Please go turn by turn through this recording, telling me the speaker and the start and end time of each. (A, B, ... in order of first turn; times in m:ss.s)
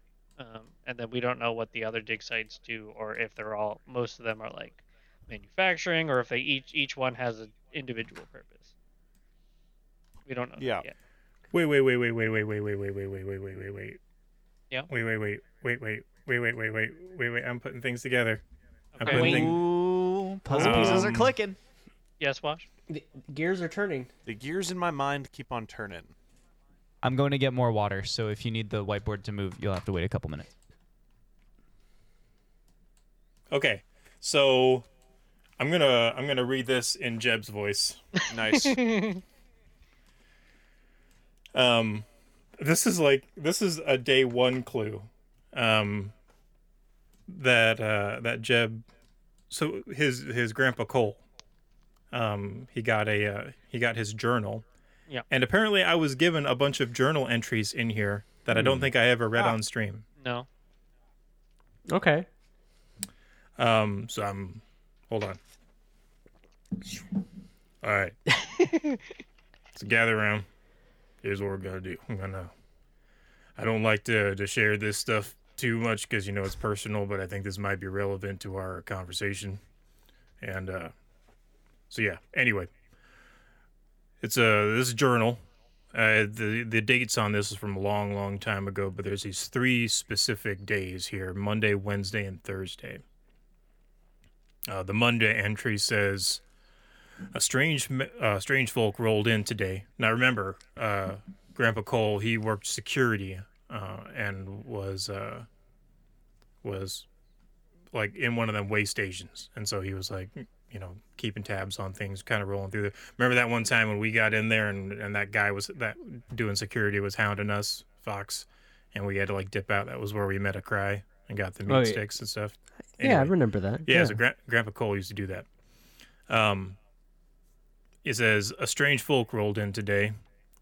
0:00.4-0:08.7 A
0:10.3-0:10.9 A
0:10.6-0:10.9 B
0:11.5-0:14.0 C
0:14.9-0:18.4 C
0:19.0-0:19.4 A
0:19.0-0:19.7 C
0:19.1-0:19.6 D
0:19.1-0:21.6 E
0:20.5-0:21.3 C
0:20.6-0:21.1 B
0:22.2-0:22.7 A
0:22.9-0:24.1 D
0:24.3-0:26.1 B
0:27.0-0:30.5 E
0:33.5-0:34.9 C
0:35.6-0:38.2 C
0:38.3-0:38.8 B
0:38.5-0:39.2 A
0:41.5-0:42.1 C
0:42.6-0:46.1 C
0:47.3-0:48.8 C
0:49.5-0:51.2 C
0:52.1-0:54.6 C
0:55.3-1:00.0 C
0:58.5-0:58.9 D
1:00.2-1:00.5 A
1:01.9-1:02.3 D
1:03.6-1:05.4 C
1:07.8-1:08.2 C
1:09.8-1:10.5 C
1:11.2-1:12.5 C
1:13.6-1:19.6 C
1:20.4-1:20.9 C
1:21.9-1:22.7 C
1:24.2-1:25.4 C
1:25.9-1:33.0 C
1:34.7-1:36.4 C
1:37.3-1:45.5 C
1:46.6-1:47.1 C
1:47.9-2:03.3 C
2:01.7-2:02.0 D
2:03.0-2:04.2 D
2:03.9-2:05.5 C
2:06.3-2:06.8 C
2:08.0-2:10.2 C